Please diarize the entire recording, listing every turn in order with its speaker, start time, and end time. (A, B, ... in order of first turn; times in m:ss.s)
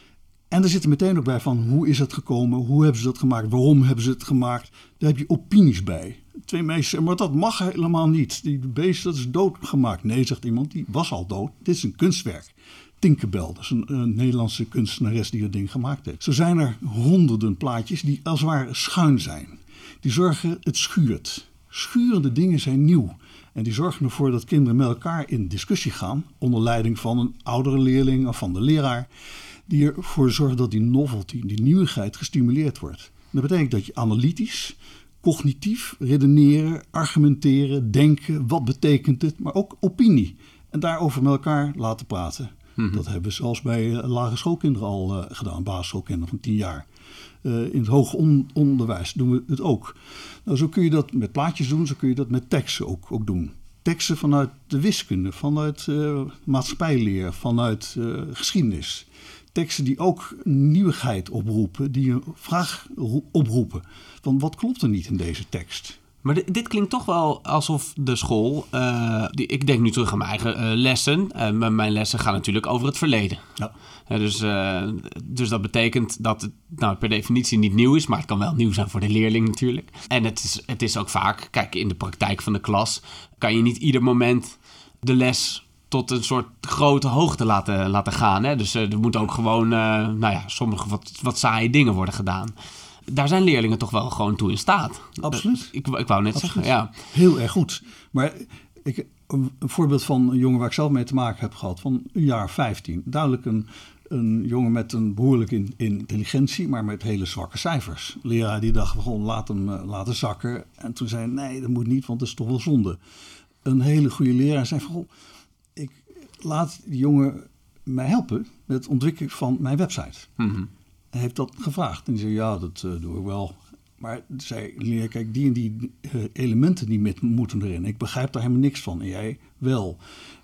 0:00.5-0:29.1 A
0:29.7-0:46.9 A
0:42.8-0:43.0 B
0:47.4-1:06.0 A
1:06.2-1:13.4 B
1:14.1-1:32.5 B
1:33.1-1:36.9 B
1:35.2-1:35.7 A
1:36.3-1:53.0 A
1:53.6-1:55.1 A
1:55.8-2:00.3 A
2:00.4-2:00.7 B
2:01.1-2:10.0 A